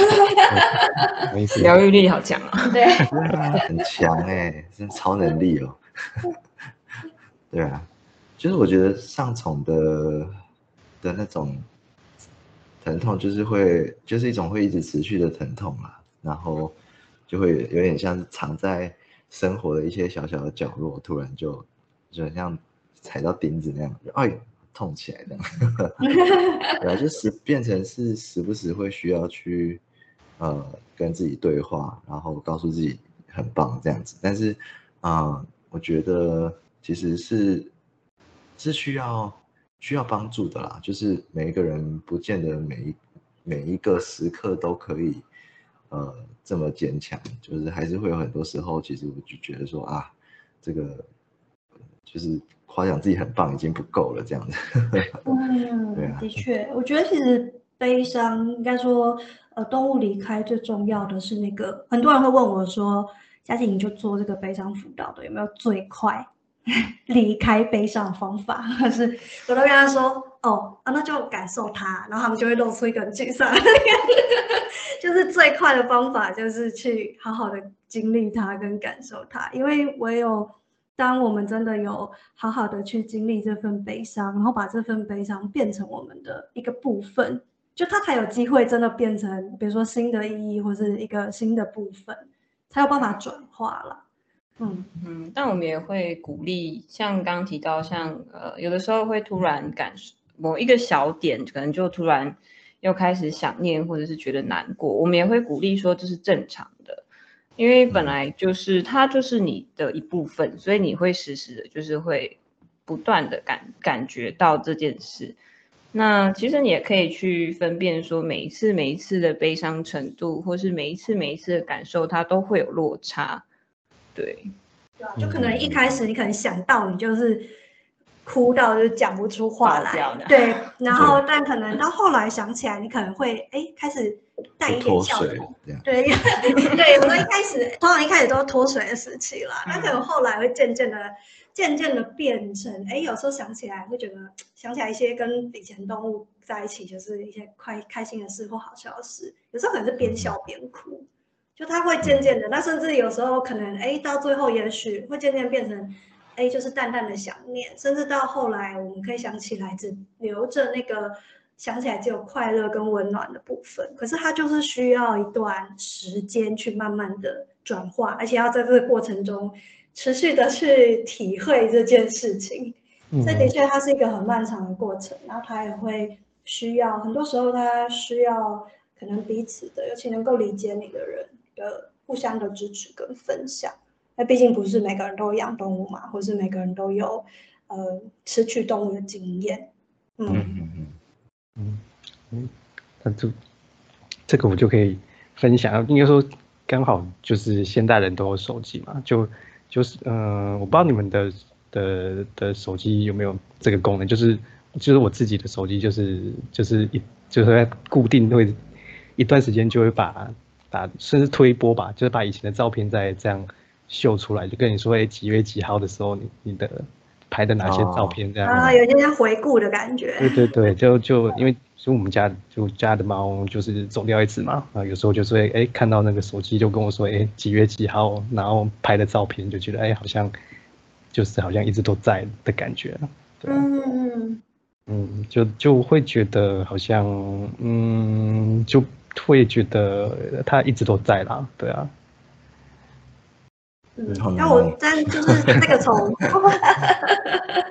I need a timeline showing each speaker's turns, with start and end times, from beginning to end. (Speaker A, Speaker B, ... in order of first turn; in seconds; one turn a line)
Speaker A: 0.5-1.7
Speaker B: 1.6-2.8
Speaker C: 2.7-3.1
Speaker D: 3.1-5.8
Speaker D: 7.5-10.4
Speaker D: 11.0-11.7
Speaker D: 12.8-16.8
Speaker D: 17.3-25.9
Speaker C: 26.0-26.8
Speaker D: 26.8-29.8
Speaker D: 30.4-37.7
Speaker D: 38.6-45.2
Speaker D: 45.9-51.1
Speaker D: 52.1-55.1
Speaker C: 55.2-66.3
Speaker D: 56.0-56.3
Speaker C: 66.8-94.0
Speaker C: 94.6-94.9
Speaker B: 95.0-107.0
Speaker B: 107.6-115.4
Speaker D: 107.9-108.2
Speaker B: 115.9-123.4
Speaker B: 124.2-124.5
Speaker C: 125.0-127.5
Speaker A: 125.2-125.6
Speaker D: 125.4-125.8
Speaker C: 128.3-151.1
Speaker B: 129.6-130.5
Speaker D: 130.9-131.2
Speaker D: 134.7-135.9
Speaker B: 139.7-140.0
Speaker D: 150.0-150.3
Speaker C: 151.6-190.5
Speaker D: 152.0-152.3
Speaker A: 173.1-173.5
Speaker D: 190.3-191.0
Speaker A: 191.6-192.5
Speaker A: 193.0-193.3
Speaker A: 194.3-208.6
Speaker A: 209.2-218.8
Speaker D: 217.6-218.2
Speaker C: 218.4-220.4
Speaker A: 220.2-230.3
Speaker A: 231.1-233.7
Speaker C: 233.5-234.4
Speaker A: 234.9-241.9
Speaker C: 244.0-247.6
Speaker D: 244.1-244.8